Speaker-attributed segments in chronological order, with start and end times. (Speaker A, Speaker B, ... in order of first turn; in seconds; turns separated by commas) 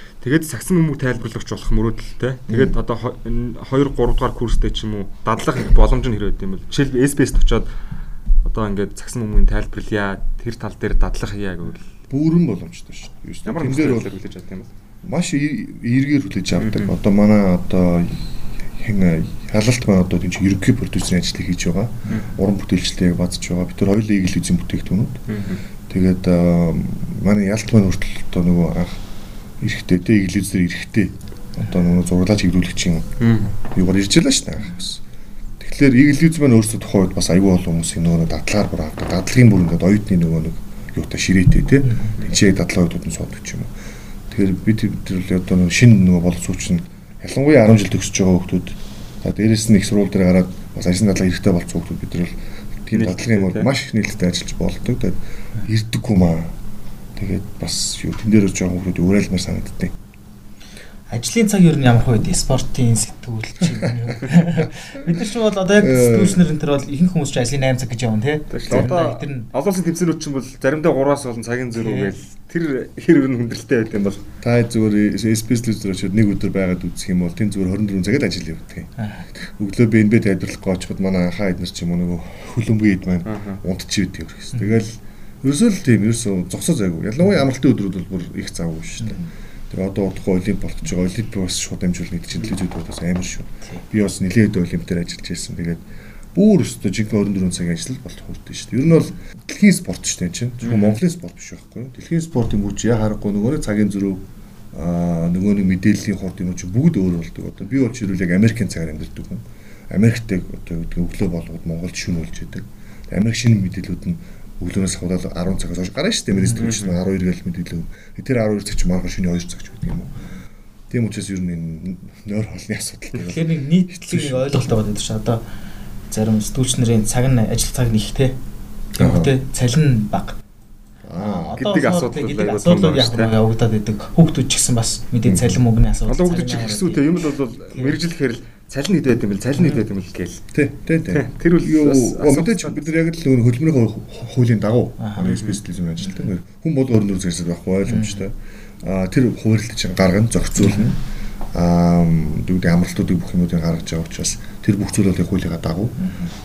Speaker A: 0.2-7.7, Speaker B: 2.5-2.8, Speaker A: 8.4-11.9, Speaker B: 12.1-14.1, Speaker A: 13.4-14.7, Speaker B: 15.0-25.2, Speaker A: 16.6-16.9, Speaker A: 25.3-25.6, Speaker B: 25.9-29.0, Speaker B: 29.6-33.2, Speaker A: 33.2-33.5, Speaker B: 33.7-35.0, Speaker B: 35.6-43.7, Speaker C: 41.8-42.1, Speaker B: 44.3-56.5, Speaker A: 52.9-53.7, Speaker B: 57.1-59.9, Speaker C: 61.1-69.5, Speaker B: 65.8-66.4, Speaker A: 68.5-74.2, Speaker C: 71.8-72.1, Speaker B: 74.4-120.3, Speaker C: 79.0-79.2, Speaker A: 83.2-83.6, Speaker C: 89.0-89.3, Speaker A: 100.6-101.0, Speaker A: 116.5-117.0, Speaker B: 120.9-124.7, Speaker C: 123.2-125.5, Speaker C: 126.1-128.4, Speaker B: 129.0-129.3, Speaker C: 129.0-130.4, Speaker B: 131.0-131.6, Speaker C: 131.2-138.0, Speaker A: 131.6-133.3, Speaker B: 135.2-135.6, Speaker A: 136.1-140.4, Speaker C: 139.6-139.8, Speaker B: 140.5-151.0, Speaker A: 141.1-142.9, Speaker C: 145.0-145.3, Speaker A: 145.2-145.6, Speaker C: 146.0-146.3, Speaker C: 147.9-148.2, Speaker C: 150.6-151.0, Speaker B: 151.5-156.0, Speaker C: 156.0-156.3